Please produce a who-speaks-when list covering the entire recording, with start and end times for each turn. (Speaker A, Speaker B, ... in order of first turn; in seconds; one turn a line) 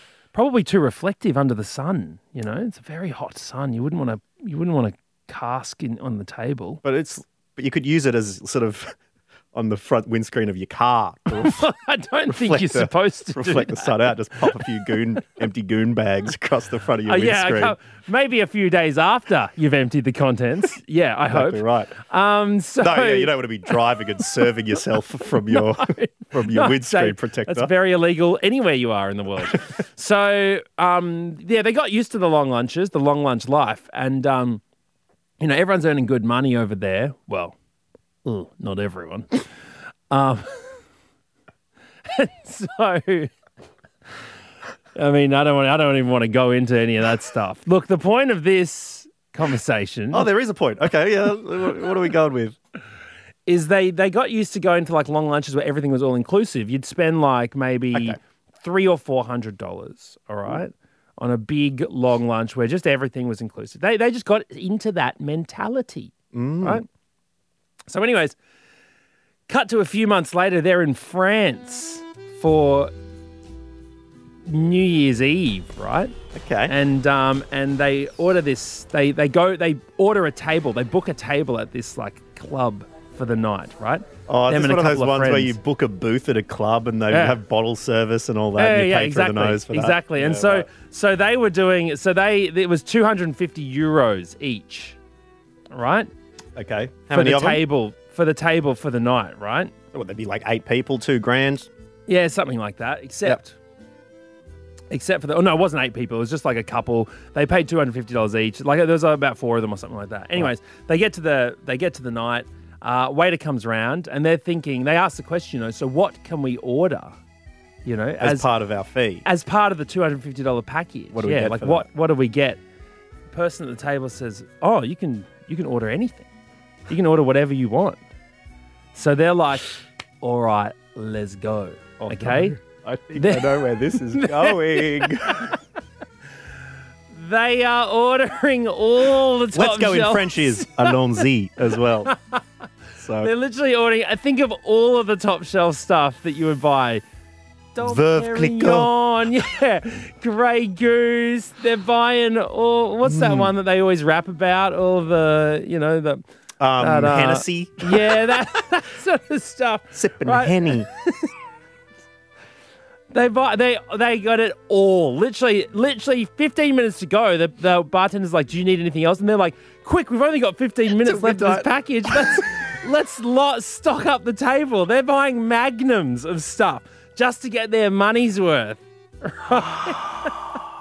Speaker A: 0.3-6.8
Speaker B: 6.8-8.9
Speaker B: 9.5-11.7
Speaker A: 11.4-14.6
Speaker B: 12.3-17.8
Speaker A: 17.1-23.3
Speaker B: 21.3-21.9
Speaker B: 22.8-27.7
Speaker A: 25.5-34.6
Speaker A: 35.4-37.5
Speaker A: 38.2-39.4
Speaker A: 40.1-40.8
Speaker A: 42.0-43.3
Speaker A: 45.0-50.3
Speaker B: 50.1-52.6
Speaker A: 53.5-66.8
Speaker B: 57.9-58.2
Speaker B: 66.3-66.8
Speaker A: 67.9-68.3
Speaker A: 69.5-72.9
Speaker A: 74.4-76.1
Speaker B: 76.3-76.7
Speaker A: 76.7-85.6
Speaker B: 84.3-90.7
Speaker A: 87.1-87.4
Speaker A: 88.6-95.0
Speaker A: 95.7-96.1
Speaker B: 96.5-97.6
Speaker A: 97.1-99.7
Speaker B: 99.9-101.7
Speaker A: 102.1-103.5
Speaker A: 104.9-117.2
Speaker A: 117.8-118.5
Speaker B: 118.2-119.2
Speaker A: 119.2-122.6
Speaker B: 121.1-121.9
Speaker A: 123.3-126.3
Speaker A: 126.9-128.0
Speaker A: 128.9-132.6
Speaker B: 132.0-135.6
Speaker A: 133.2-135.6
Speaker A: 137.1-140.9
Speaker B: 139.5-142.1
Speaker A: 142.1-142.4
Speaker B: 143.0-143.3
Speaker A: 143.2-147.0
Speaker A: 147.7-156.2
Speaker B: 147.8-148.9
Speaker B: 153.0-153.5
Speaker B: 156.6-158.3
Speaker A: 156.8-161.3
Speaker B: 159.9-160.9
Speaker A: 163.1-180.4
Speaker B: 171.0-172.4